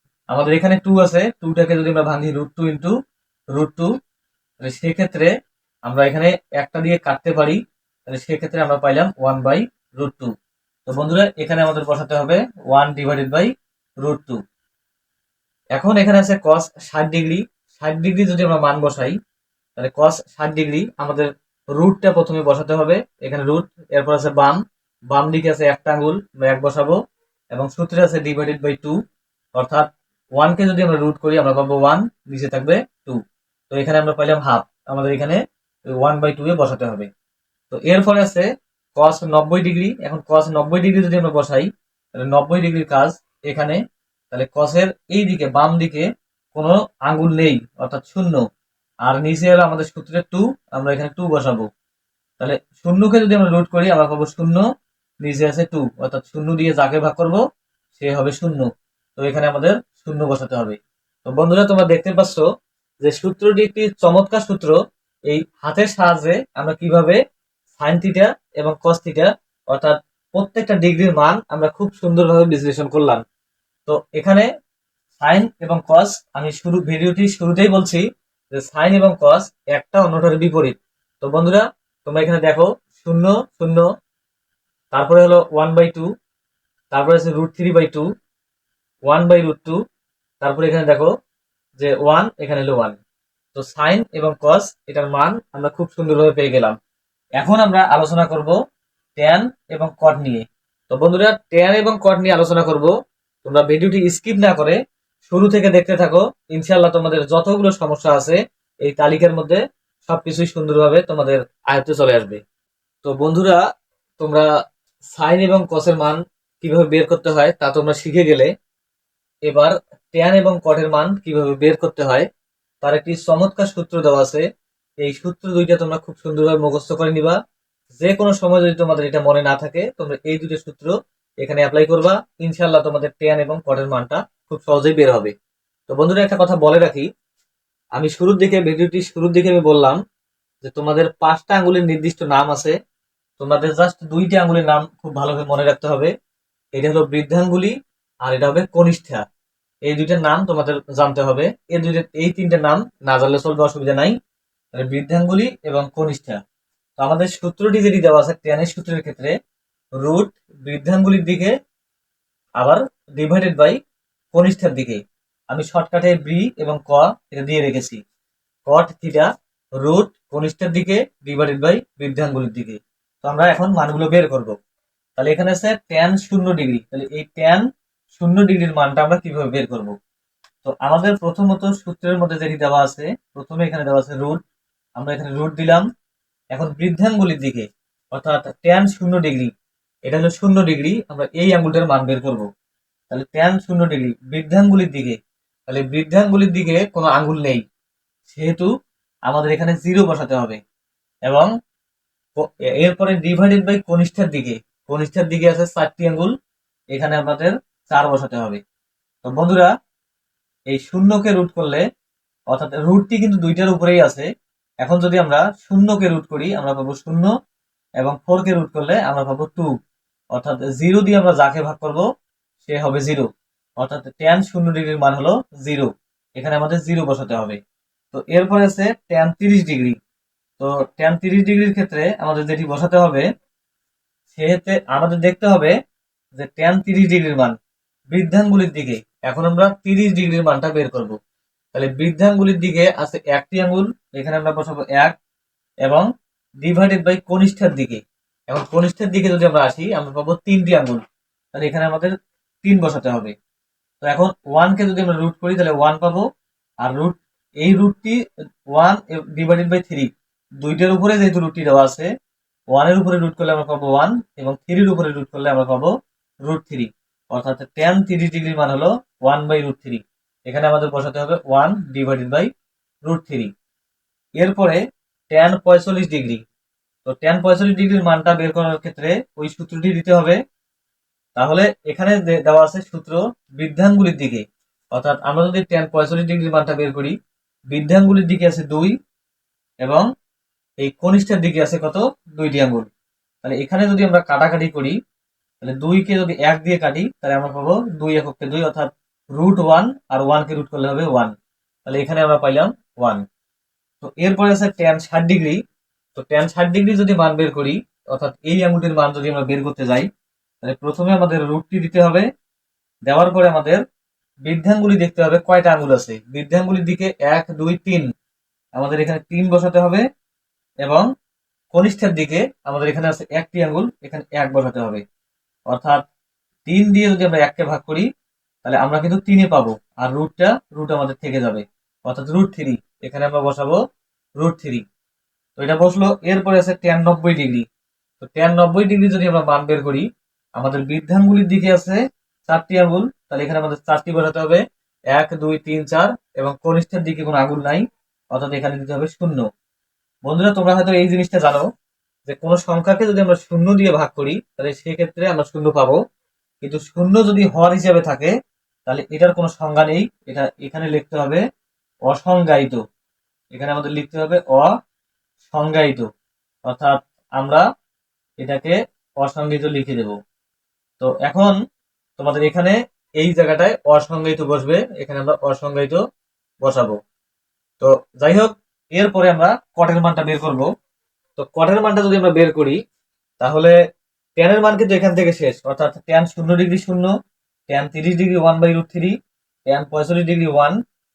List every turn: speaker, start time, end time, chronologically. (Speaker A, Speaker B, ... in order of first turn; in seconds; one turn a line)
Speaker A: 0.3-2.9
Speaker A: 3.5-3.9
Speaker A: 4.6-5.3
Speaker A: 5.8-10.3
Speaker A: 10.9-14.4
Speaker A: 15.7-19.2
Speaker A: 19.8-27.0
Speaker A: 27.5-29.0
Speaker A: 29.5-33.2
Speaker A: 33.7-37.1
Speaker A: 37.7-48.4
Speaker A: 49.0-51.7
Speaker A: 52.4-54.6
Speaker A: 55.2-57.4
Speaker A: 57.9-62.4
Speaker A: 63.0-67.2
Speaker A: 67.7-73.2
Speaker A: 73.9-74.5
Speaker A: 75.2-83.9
Speaker A: 84.9-86.1
Speaker A: 86.9-88.0
Speaker A: 89.0-89.8
Speaker A: 90.4-91.1
Speaker A: 91.8-93.0
Speaker A: 93.5-96.8
Speaker A: 97.4-98.5
Speaker A: 99.2-102.9
Speaker A: 103.4-112.4
Speaker A: 113.0-113.6
Speaker A: 114.2-114.5
Speaker A: 115.1-118.5
Speaker A: 119.5-122.3
Speaker A: 122.8-124.5
Speaker A: 125.0-127.4
Speaker A: 128.0-135.3
Speaker A: 135.9-137.1
Speaker A: 137.9-140.0
Speaker A: 140.6-142.8
Speaker A: 143.4-146.1
Speaker A: 146.7-149.2
Speaker A: 149.8-154.2
Speaker A: 154.8-156.4
Speaker A: 157.0-159.3
Speaker A: 160.0-161.5
Speaker A: 162.6-163.8
Speaker A: 164.3-168.0
Speaker A: 168.7-174.5
Speaker A: 175.2-179.9
Speaker A: 180.6-184.4
Speaker A: 185.0-185.8
Speaker A: 186.5-189.5
Speaker A: 190.1-192.5
Speaker A: 193.1-197.6
Speaker A: 198.3-198.7
Speaker A: 199.3-200.6
Speaker A: 202.3-206.3
Speaker A: 206.9-208.6
Speaker A: 209.2-209.7
Speaker A: 210.7-211.8
Speaker A: 212.5-214.3
Speaker A: 214.8-217.3
Speaker A: 218.0-219.7
Speaker A: 220.3-222.0
Speaker A: 222.6-223.3
Speaker A: 223.8-227.6
Speaker A: 228.1-229.9
Speaker A: 230.6-233.2
Speaker A: 234.3-235.7
Speaker A: 236.3-237.5
Speaker A: 238.1-241.2
Speaker A: 241.7-245.1
Speaker A: 246.6-251.0
Speaker A: 251.5-252.1
Speaker A: 252.6-253.3
Speaker A: 254.0-256.3
Speaker A: 256.8-258.2
Speaker A: 258.7-260.1
Speaker A: 260.6-262.1
Speaker A: 262.7-265.9
Speaker A: 266.4-272.5
Speaker A: 273.0-273.5
Speaker A: 274.4-276.4
Speaker A: 277.0-280.4
Speaker A: 281.4-287.1
Speaker A: 287.7-288.9
Speaker A: 290.8-292.9
Speaker A: 293.4-294.9
Speaker A: 295.6-301.3
Speaker A: 301.9-303.2
Speaker A: 304.0-305.6
Speaker A: 306.1-310.1
Speaker A: 310.6-312.2
Speaker A: 313.1-313.8
Speaker A: 314.4-318.1
Speaker A: 318.7-320.0
Speaker A: 321.7-325.0
Speaker A: 325.7-326.0
Speaker A: 326.6-328.1
Speaker A: 328.6-333.8
Speaker A: 334.4-334.8
Speaker A: 335.6-337.6
Speaker A: 338.2-340.1
Speaker A: 340.6-349.4
Speaker A: 350.2-351.7
Speaker A: 352.3-356.0
Speaker A: 356.6-358.3
Speaker A: 358.9-361.4
Speaker A: 362.1-362.8
Speaker A: 363.5-364.7
Speaker A: 365.4-366.1
Speaker A: 366.6-367.6
Speaker A: 368.4-370.1
Speaker A: 371.0-371.6
Speaker A: 372.2-376.0
Speaker A: 376.6-377.0
Speaker A: 377.8-380.7
Speaker A: 381.4-382.8
Speaker A: 383.4-383.7
Speaker A: 384.4-387.1
Speaker A: 387.7-389.1
Speaker A: 389.6-390.8